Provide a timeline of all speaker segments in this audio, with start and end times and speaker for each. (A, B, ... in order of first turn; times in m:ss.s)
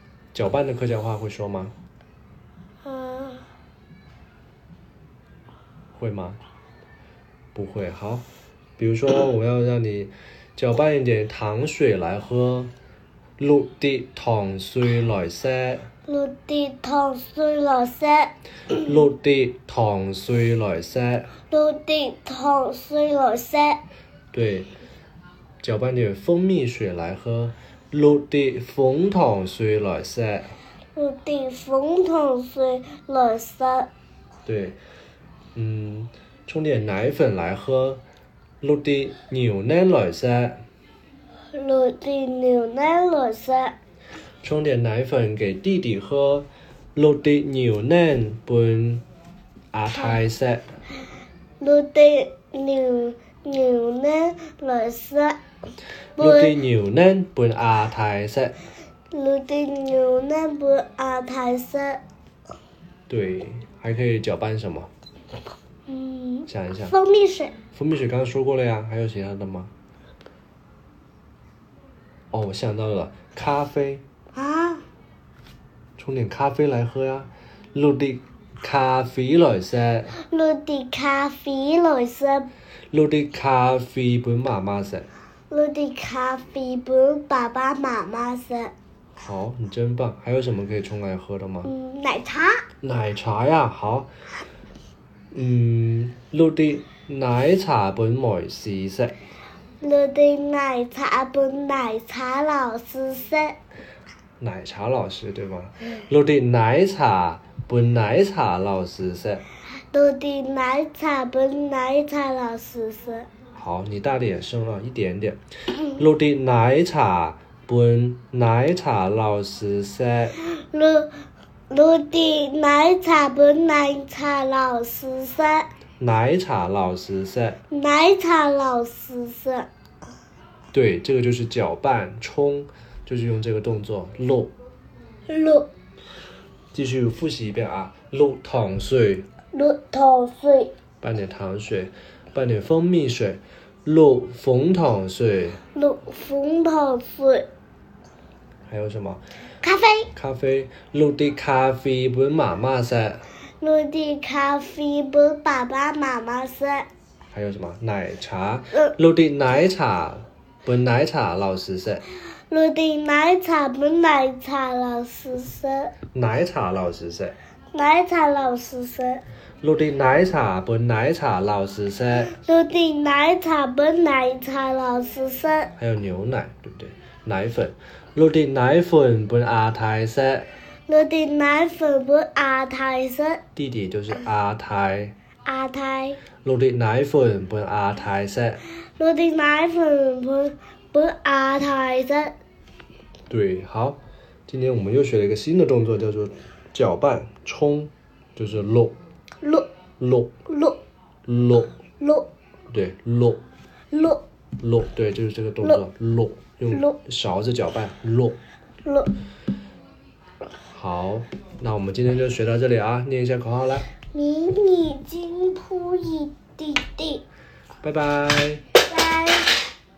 0:00.3-0:01.7 A
0:02.8-0:03.4 B
0:05.9-0:06.4 A
0:07.5-0:08.2 A
0:08.8-0:12.7 A
0:13.4-0:15.9 A
0:16.0-0:18.3 B
0:18.8-0:21.3 A
0:21.5-0:23.8 B
0:24.3-0:24.7 A
0:25.6-0:30.6 A
0:30.9-0:33.9 B
0:34.4-0:34.8 A
0:35.5-0:38.0 A
0:38.6-0:40.6 A
0:41.5-0:43.7 B
0:44.4-0:49.0 A
0:49.7-0:50.7 A
0:51.6-0:55.4 B
0:56.2-0:56.6 B
0:56.2-0:58.6 A
0:59.1-1:02.0 B
1:03.1-1:04.9 A
1:05.9-1:07.5 B
1:06.5-1:06.9 A
1:07.7-1:09.7 A
1:12.3-1:14.0 A
1:14.3-1:14.8 B
1:16.0-1:20.1 A
1:20.1-1:22.5 B
1:22.9-1:25.1 A
1:25.5-1:28.7 B
1:29.2-1:31.7 A
1:31.6-1:32.6 B
1:32.8-1:34.1 A
1:35.3-1:39.2 A
1:39.8-1:43.6 B
1:44.4-1:49.4 A
1:49.9-1:53.3 B
1:53.5-2:00.4 A
2:00.4-2:01.1 B
2:01.7-2:05.7 B
2:06.0-2:07.6 A
2:07.7-2:09.7 B
2:10.7-2:14.5 A
2:15.3-2:15.7 B
2:16.7-2:19.3 A
2:19.5-2:20.7 B
2:21.0-2:25.6 A
2:25.7-2:27.5 B
2:28.7-2:29.2 A
2:29.6-2:30.1 B
2:30.1-2:33.2 A
2:33.6-2:36.9 B
2:37.3-2:42.0 A
2:42.5-2:45.9 B
2:46.1-2:47.4 A
2:47.7-2:49.2 B
2:49.6-2:52.3 A
2:52.3-2:55.7 B
2:55.8-3:00.5 A
3:00.9-3:03.4 B
3:03.6-3:05.1 A
3:05.4-3:06.2 B
3:06.4-3:08.6 A
3:09.0-3:12.3 B
3:13.3-3:18.9 A
3:19.4-3:19.7 B
3:20.0-3:20.3 A
3:20.4-3:20.8 B
3:21.3-3:21.7 A
3:22.0-3:22.3 B
3:22.7-3:23.4 A
3:23.9-3:24.2 B
3:24.6-3:28.4 A
3:26.7-3:27.0 B
3:28.8-3:29.1 B
3:30.7-3:33.9 A
3:34.1-3:37.2 B
3:37.8-3:38.6 A
3:38.8-3:39.7 B